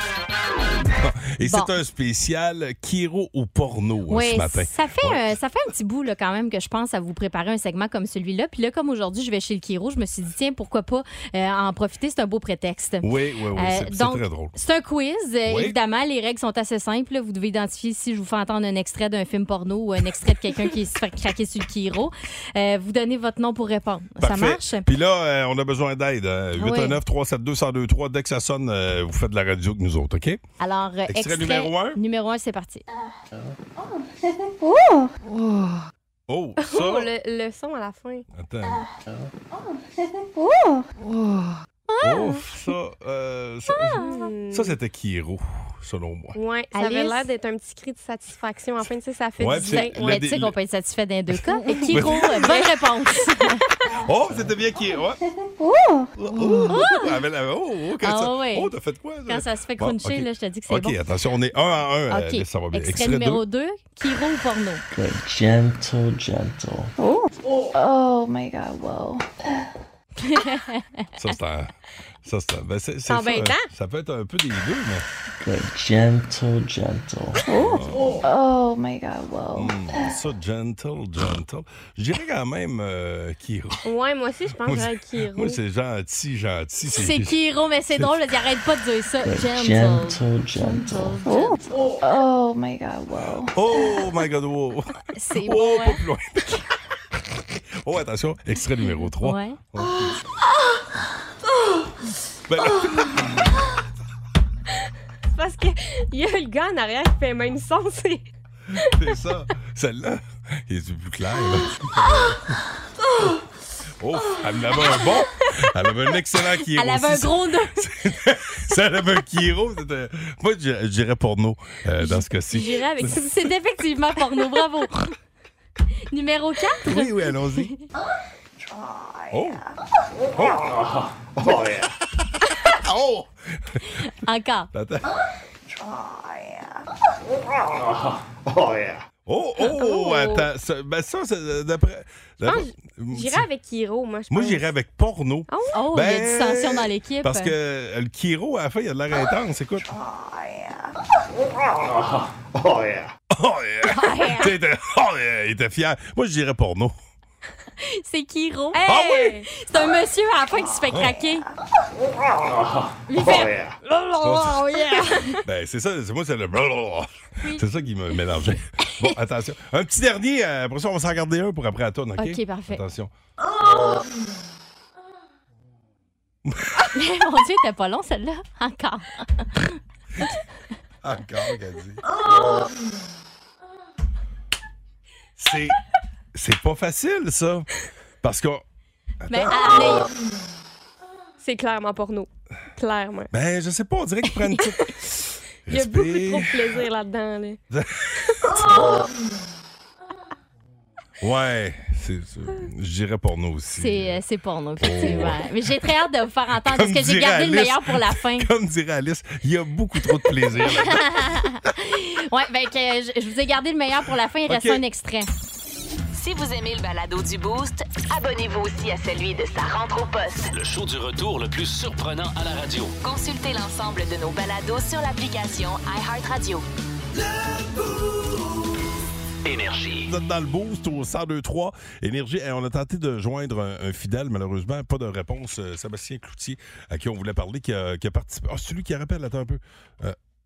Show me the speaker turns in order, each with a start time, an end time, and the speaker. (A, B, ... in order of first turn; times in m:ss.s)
0:01.0-0:05.2 A
0:01.4-0:01.7 B
0:04.1-0:24.9 B
0:13.0-0:14.5 A
0:15.5-0:15.8 A
0:24.2-0:30.4 A
0:26.6-0:27.0 B
0:30.6-0:32.8 B
0:31.1-0:32.0 A
0:36.3-0:37.1 A
0:36.6-0:38.3 C
0:38.3-0:38.8 A
0:42.0-0:42.4 B
0:42.0-0:46.4 A
0:43.7-0:44.3 B
0:43.9-0:44.8 C
0:46.4-0:50.2 C
0:46.7-0:47.3 B
0:49.4-0:50.5 A
0:49.6-0:53.6 B
0:51.9-0:52.7 A
0:54.0-0:55.2 A
0:56.2-1:03.4 A
0:56.7-0:57.2 B
0:58.0-0:58.7 B
0:59.3-1:01.0 B
1:02.1-1:04.8 B
1:04.9-1:06.9 D
1:07.0-1:09.2 E
1:10.2-1:11.0 B
1:11.2-1:15.1 A
1:13.1-1:13.7 C
1:15.4-1:17.4 D
1:17.5-1:20.1 E
1:17.5-1:18.2 A
1:19.6-1:23.8 A
1:23.8-1:25.6 C
1:24.6-1:27.4 A
1:27.0-1:31.6 B
1:29.2-1:31.3 D
1:31.3-1:33.6 E
1:33.6-1:36.6 A
1:35.2-1:36.0 B
1:37.8-1:40.2 A
1:39.2-1:39.6 B
1:42.5-1:43.4 A
1:45.3-1:48.2 C
1:48.8-1:52.6 A
1:54.0-2:03.3 A
1:56.6-1:57.9 B
2:02.0-2:05.1 B
2:02.6-2:03.4 C
2:06.1-2:07.8 B
2:06.8-2:07.7 A
2:09.3-2:09.6 A
2:10.3-2:10.7 A
2:12.7-2:13.3 A
2:14.0-2:14.7 B
2:14.7-2:15.1 A
2:19.3-2:23.5 A
2:19.6-2:20.4 B
2:19.7-2:20.4 C
2:22.4-2:24.7 C
2:24.3-2:29.9 A
2:25.5-2:25.8 C
2:25.7-2:27.6 B
2:33.3-2:37.0 A
2:33.9-2:34.6 B
2:37.8-2:41.4 B
2:38.7-2:39.5 C
2:38.8-2:39.3 A
2:40.9-2:41.2 A
2:43.1-2:45.4 B
2:44.2-2:44.7 A
2:45.4-2:53.1 A
2:52.2-2:52.8 B
2:56.9-2:59.5 B
3:01.0-3:02.0 A
3:05.4-3:05.8 A
3:06.3-3:07.7 A
3:08.2-3:08.6 A
3:09.2-3:10.0 A
3:09.3-3:10.1 B
3:11.4-3:13.3 C
3:13.3-3:14.9 A
3:15.7-3:16.8 A
3:15.7-3:17.6 C
3:17.7-3:18.8 A
3:21.2-3:24.2 A
3:23.8-3:28.5 B
3:24.8-3:25.5 A
3:26.6-3:31.2 A
3:30.6-3:35.3 B
3:34.5-3:34.8 A
3:36.1-3:40.5 F
3:40.5-3:43.0 G
3:43.0-3:46.7 F
3:49.4-3:50.1 G
3:50.1-4:00.2 A